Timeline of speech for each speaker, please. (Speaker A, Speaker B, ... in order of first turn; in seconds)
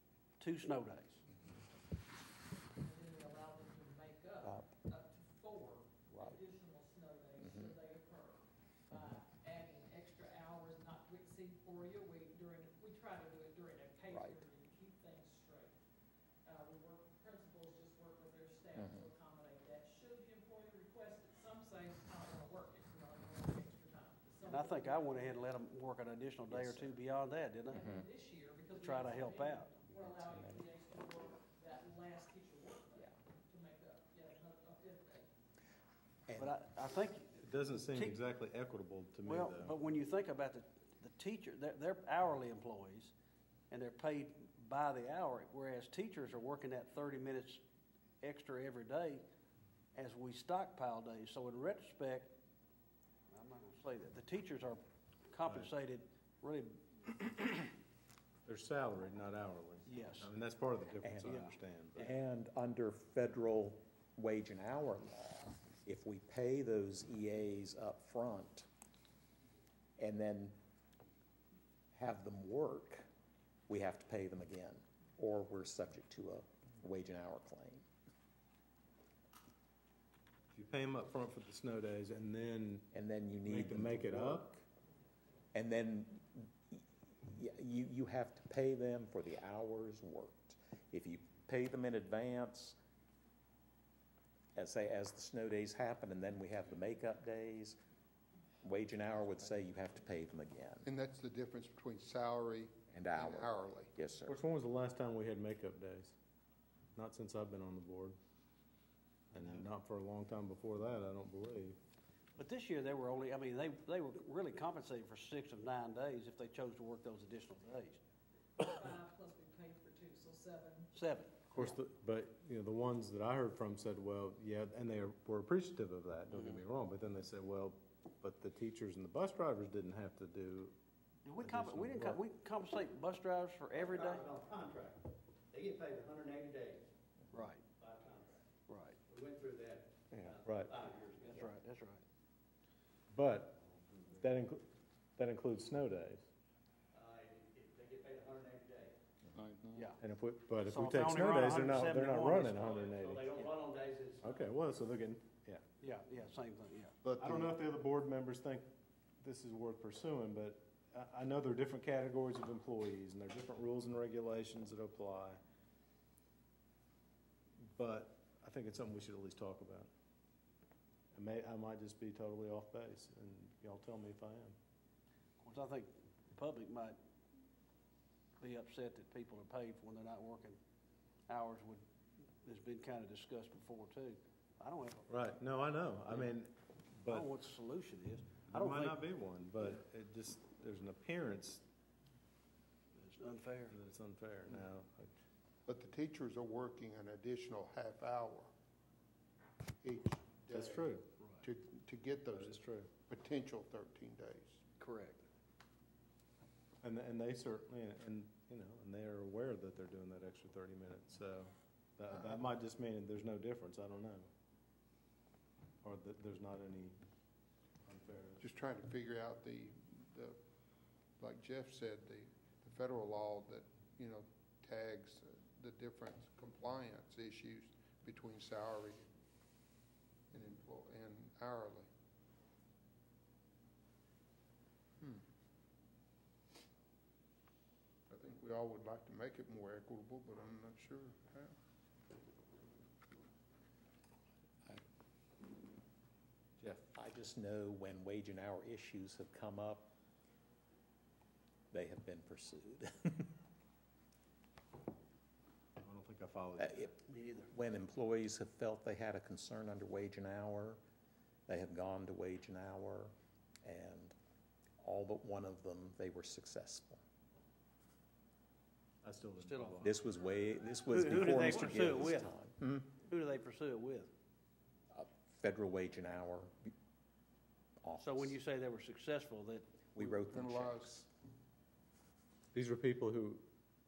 Speaker A: 0.4-1.2, 24.5-27.8, 28.7-29.8, 36.4-38.2, 39.2-43.1, 43.7-47.6, 48.2-49.2, 49.9-52.3, 53.3-57.7, 59.9-60.3, 61.2-61.6, 112.4-118.0, 120.9-121.7, 126.3-126.6, 131.3-134.3, 137.3-137.6, 138.7-139.0, 141.2-142.0, 149.8-150.0, 150.7-152.9, 155.8-157.0, 175.4-177.0, 178.4-180.6, 181.3-181.8, 182.4-185.1, 187.1-189.0, 192.9-193.8, 204.8-205.2, 257.1-257.5, 269.4-269.8, 270.9-272.3, 273.0-274.1, 278.0-279.7
Speaker B: 2.8-15.8, 16.4-25.4, 27.7-35.3, 118.6-120.9
Speaker C: 7.4-7.7, 8.9-9.2, 14.1-14.4, 18.8-19.1, 26.5-26.9, 27.8-28.1, 29.9-30.6, 36.3-36.5, 61.0-61.4, 62.0-68.7, 70.0-70.6, 71.9-73.1, 73.7-77.8, 82.9-84.5, 85.5-92.8, 94.5-97.8, 98.6-100.9, 102.9-104.3, 246.9-249.9, 251.7-253.3, 256.6-256.9, 257.5-260.8, 261.5-263.1, 263.6-264.1, 264.8-267.0, 269.8-272.9, 274.9-276.7, 277.8-278.4, 279.9-281.1
Speaker D: 37.4-39.8, 55.4-55.7, 58.5-62.0, 80.5-82.9, 83.5-84.6, 104.3-106.2, 107.0-108.2, 109.3-111.8, 121.5-130.7, 131.4-132.2, 140.1-140.7, 143.1-144.6, 145.2-146.3, 150.0-153.5, 154.2-155.6, 157.2-158.7, 159.2-165.4, 167.6-169.9, 171.2-174.6, 185.1-187.3, 188.5-191.6, 193.7-195.1, 200.5-201.1, 202.3-202.9, 206.8-214.3, 215.8-217.0, 217.9-218.5, 246.6-246.8, 255.8-257.0, 269.0-270.0, 282.5-283.4
Speaker E: 100.8-103.9, 157.0-157.5, 195.7-198.5, 199.8-204.6, 218.4-220.4, 221.2-229.1, 230.3-231.9, 238.1-241.5, 280.0-281.0
Speaker F: 133.7-136.8, 137.7-138.4, 139.1-141.4, 146.9-148.9, 152.8-154.4